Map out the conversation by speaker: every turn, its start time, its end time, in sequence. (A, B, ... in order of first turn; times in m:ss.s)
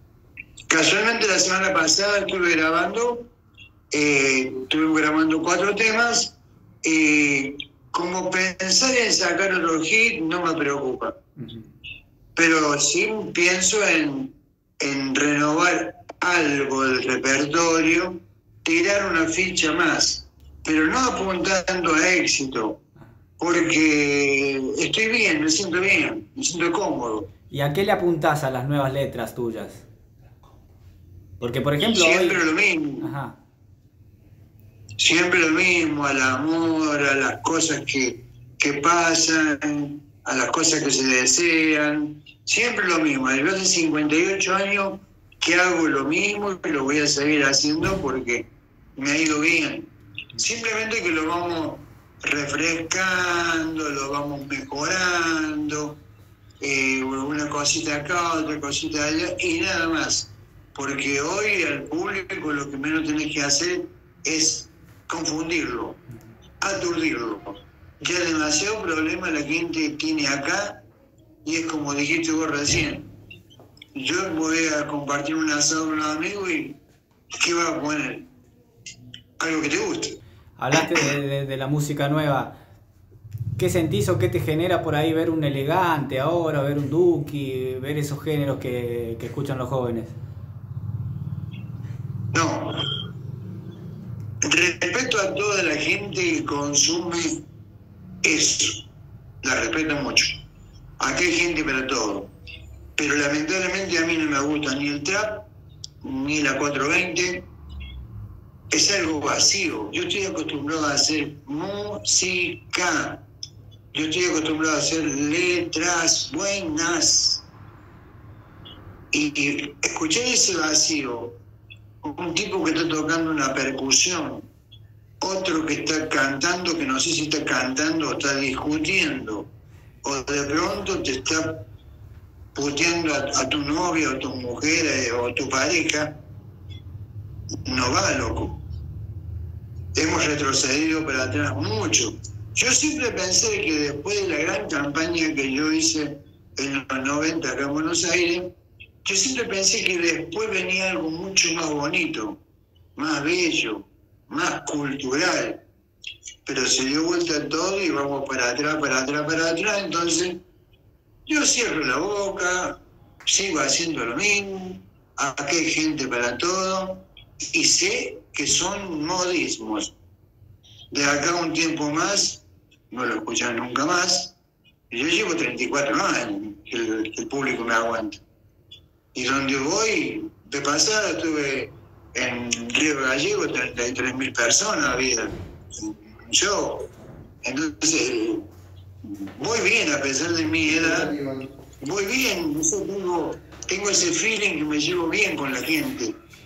0:00.7-0:03.3 A
0:03.9-0:11.2 A
0:11.4-0:11.7 B
0:12.4-0:22.8 A
0:23.4-0:27.3 A
0:27.5-0:29.8 B
0:31.4-0:32.4 B
0:31.9-0:33.1 A
0:33.0-0:33.4 B
0:35.0-0:56.0 A
0:56.6-1:06.0 A
1:06.6-1:10.8 A
1:11.4-1:13.1 A
1:14.0-1:16.8 A
1:17.4-1:18.3 A
1:19.4-1:20.2 A
1:20.6-1:22.6 B
1:23.6-1:30.2 B
1:32.3-1:32.8 A
1:34.4-1:37.4 A
1:38.2-1:38.9 A
1:39.4-1:40.4 A
1:41.0-1:42.3 A
1:43.0-1:45.5 A
1:46.0-1:47.5 A
1:48.7-1:53.2 A
1:53.9-1:57.5 A
1:59.1-2:01.4 A
2:02.0-2:04.5 A
2:05.2-2:09.5 A
2:10.0-2:11.7 A
2:12.5-2:16.2 A
2:17.7-2:18.5 A
2:20.0-2:28.5 A
2:29.0-2:32.4 A
2:33.0-2:35.6 A
2:36.4-2:40.4 A
2:41.3-2:50.0 A
2:50.9-2:54.4 A
2:54.9-2:58.2 A
2:59.1-3:06.9 A
3:07.4-3:08.5 A
3:09.0-3:11.2 A
3:11.8-3:16.2 A